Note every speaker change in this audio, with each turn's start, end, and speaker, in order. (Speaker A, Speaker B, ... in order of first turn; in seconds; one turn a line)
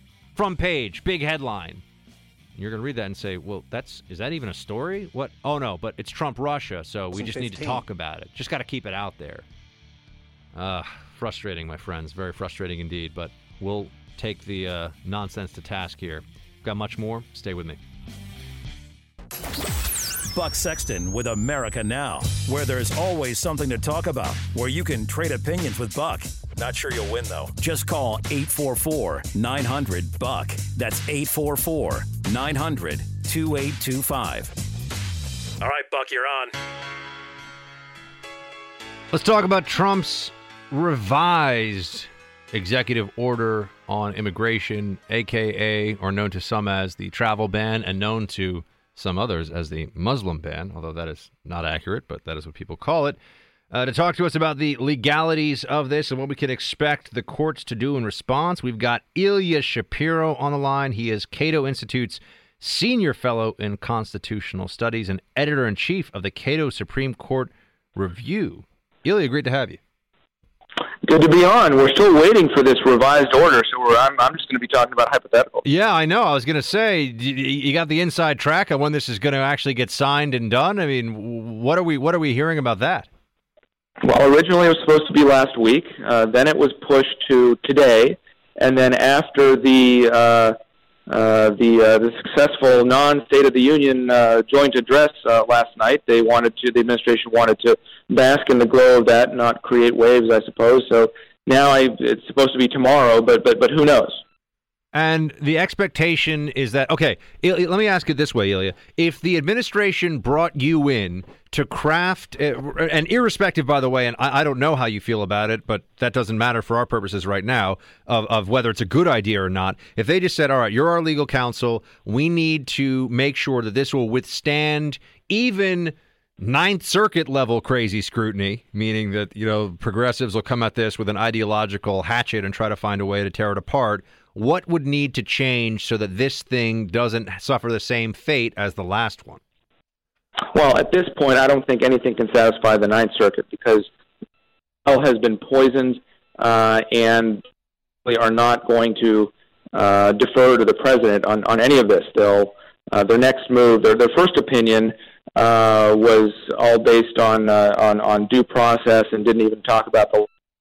Speaker A: 0.4-1.8
Speaker A: 2.5-9.5
Speaker A: 10.5-17.8
Speaker B: 20.3-34.6
Speaker B: 35.6-36.6
Speaker A: 39.1-53.2
Speaker A: 53.7-69.8
Speaker C: 71.0-75.6
Speaker A: 75.6-83.1
Speaker C: 84.0-90.6
Speaker C: 91.1-104.2
Speaker A: 104.9-139.4
Speaker C: 140.5-143.9
Speaker C: 144.9-147.4
Speaker C: 148.1-160.3